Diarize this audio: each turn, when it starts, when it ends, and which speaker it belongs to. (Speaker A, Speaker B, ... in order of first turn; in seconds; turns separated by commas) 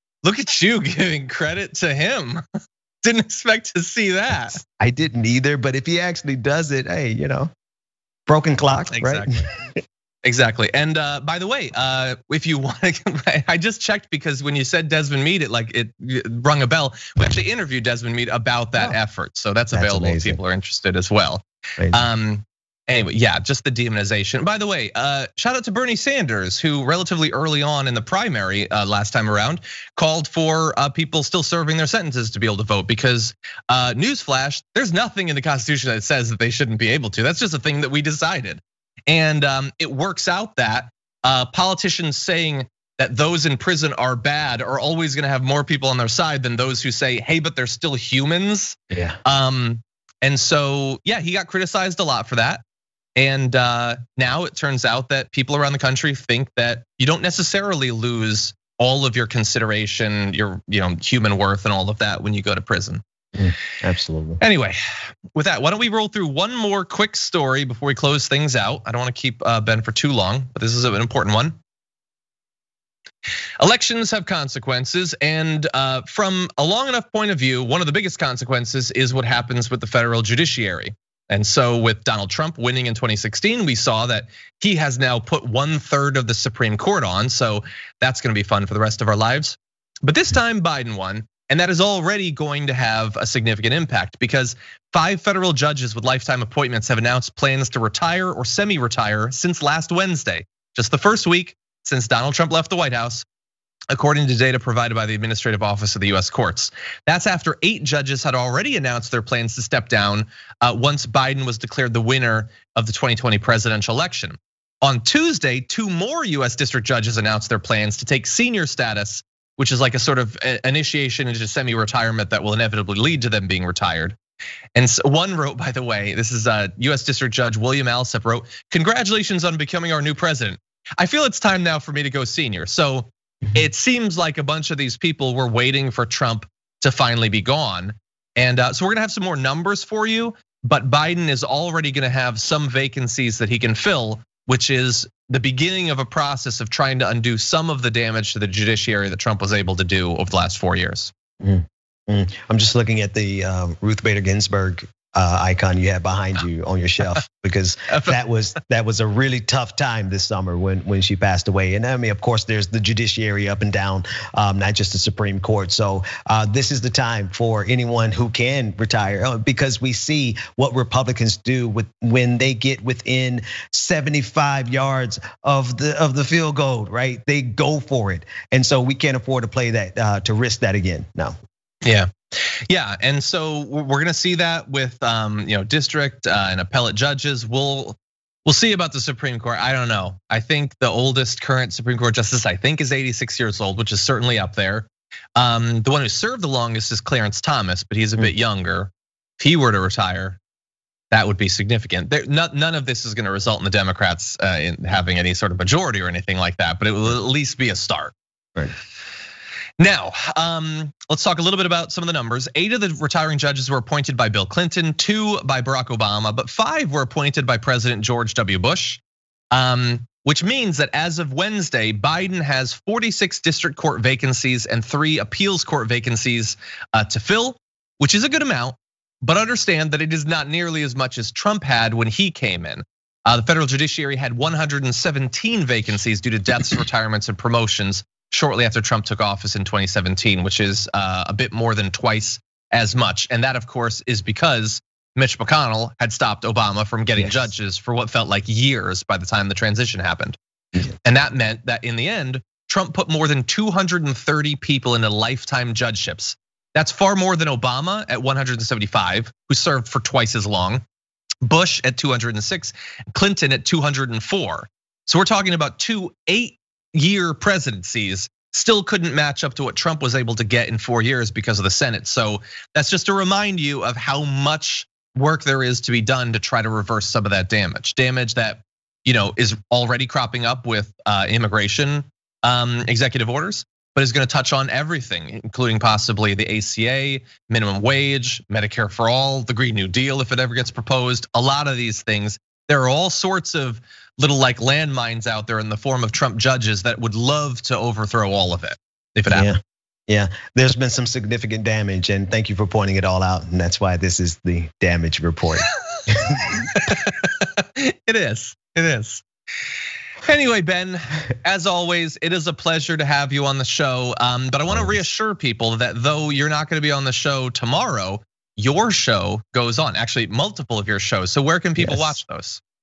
Speaker A: 0.2-2.4, Speaker A: 3.0-4.6, Speaker B: 4.6-7.5, Speaker B: 8.3-9.8, Speaker A: 8.9-9.4, Speaker A: 10.2-52.6, Speaker B: 19.7-20.4, Speaker B: 21.8-22.1, Speaker B: 48.9-49.2, Speaker A: 53.1-63.0, Speaker B: 63.3-64.4, Speaker A: 64.4-64.8, Speaker A: 65.3-71.5, Speaker A: 73.6-103.2, Speaker A: 103.9-124.1, Speaker A: 124.7-151.1, Speaker B: 151.4-181.3, Speaker A: 157.9-158.2, Speaker A: 181.8-200.4, Speaker A: 201.1-208.1, Speaker A: 209.8-219.0, Speaker A: 219.5-250.4, Speaker A: 251.0-260.8, Speaker A: 261.4-299.5, Speaker B: 299.3-306.6, Speaker A: 306.6-309.2, Speaker A: 310.2-322.6, Speaker B: 321.8-322.2